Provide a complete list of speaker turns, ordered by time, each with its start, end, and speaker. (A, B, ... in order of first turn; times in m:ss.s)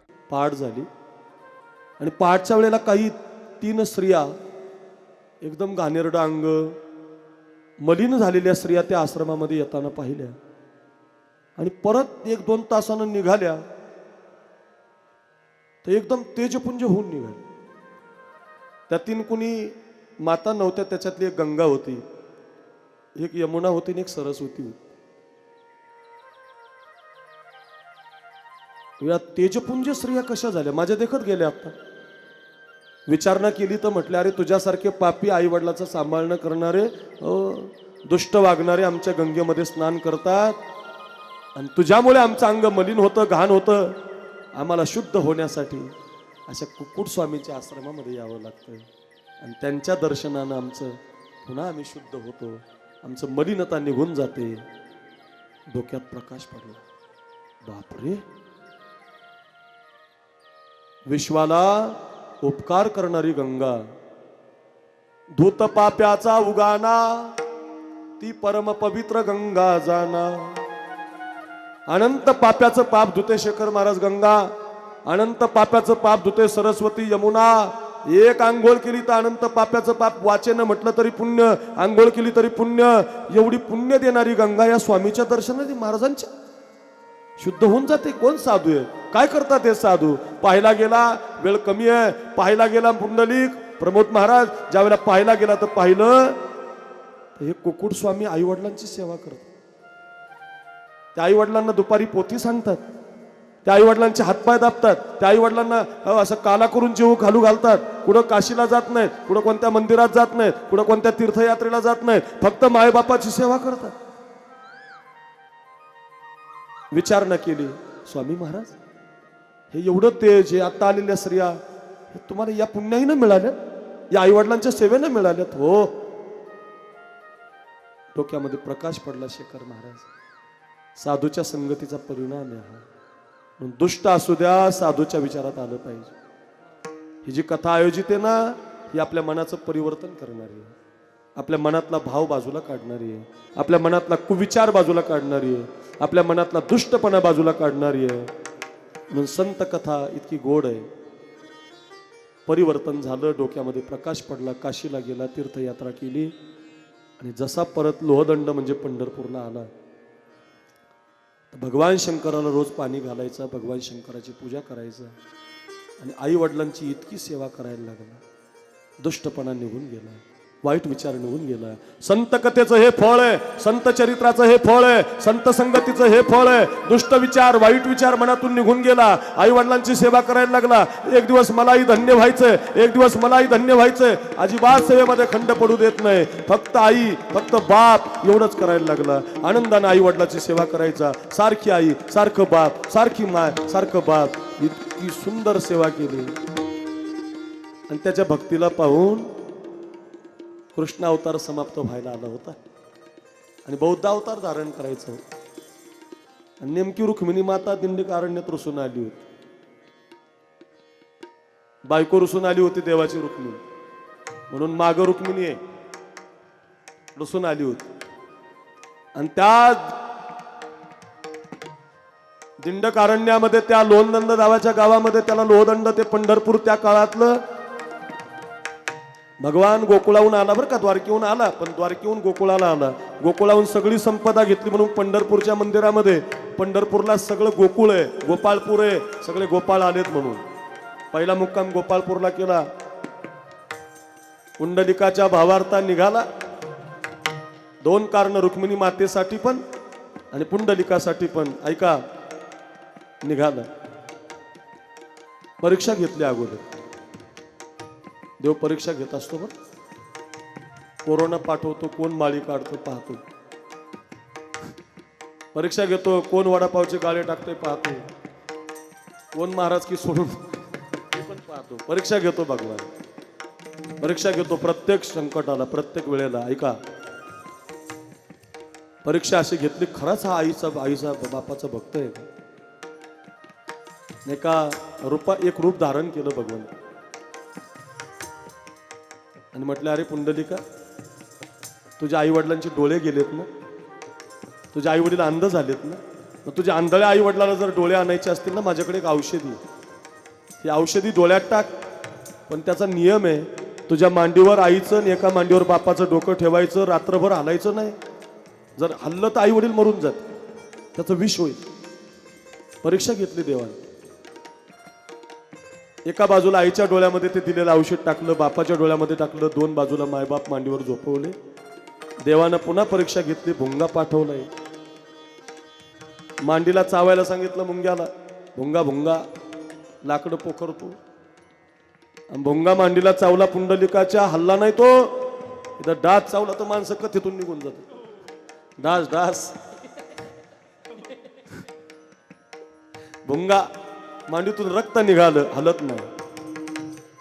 0:00.3-0:00.9 A
0:02.0-0:04.3 A
0:05.4-0:06.7 A
0:07.8-0:10.4 A
0:11.6-0:13.6 A
0:15.8-0:17.4 A
0:18.9-0:22.0 A
0:23.2-0:24.8 A
0:29.0-0:31.7 A
0:33.1-0:40.6 A
0:41.6-0:44.0 A
0:44.6-0:45.9 A
0:46.5-0:48.9 A
0:49.4-0:54.6 A
0:55.7-0:56.8 A
0:57.6-0:58.2 A
1:01.0-1:03.8 A
1:05.3-1:07.4 A
1:08.2-1:10.6 A
1:11.9-1:14.5 A
1:15.0-1:26.3 A
1:27.4-1:36.4 A
1:37.4-1:39.5 A
1:41.1-1:42.8 A
1:43.6-1:53.9 A
1:56.9-1:58.8 A
1:59.7-2:01.6 A
2:02.1-2:03.6 A
2:04.1-2:06.0 A
2:08.1-2:10.1 A
2:11.0-2:12.8 A
2:13.6-2:16.1 A
2:17.2-2:20.7 A
2:21.4-2:28.3 A
2:29.1-2:30.9 A
2:32.4-2:36.3 A
2:37.2-2:39.7 A
2:41.5-2:45.1 A
2:46.0-2:48.2 A
2:49.0-3:16.3 A
3:17.9-3:19.3 A
3:20.7-3:22.6 A
3:23.6-3:25.2 A
3:26.6-3:29.2 A
3:31.8-3:33.6 A
3:34.5-3:35.6 A
3:37.1-3:37.9 A
3:39.2-3:39.9 A
3:42.6-3:47.4 A
3:49.4-4:00.4 A
4:01.1-4:02.6 A
4:04.6-4:06.2 A
4:07.8-4:09.6 A
4:10.3-4:12.0 A
4:13.2-4:13.7 A
4:15.6-4:16.6 A
4:18.4-4:19.5 A
4:21.0-4:23.2 A
4:25.5-4:28.0 A
4:29.3-4:30.5 A
4:31.1-4:32.9 A
4:34.0-4:36.8 A
4:39.0-4:42.3 A
4:44.2-4:46.7 A
4:49.5-4:50.6 A
4:52.0-4:53.5 A
4:54.7-4:59.6 A
5:00.6-5:01.7 A
5:02.5-5:08.0 A
5:08.8-5:10.2 A
5:10.9-5:11.6 A
5:12.8-5:13.8 A
5:16.0-5:21.4 A
5:22.2-5:24.5 A
5:26.4-5:29.2 A
5:30.0-5:31.0 A
5:32.3-5:35.2 A
5:35.8-5:37.8 A
5:38.8-5:39.5 A
5:43.2-5:43.7 A
5:44.3-5:46.1 A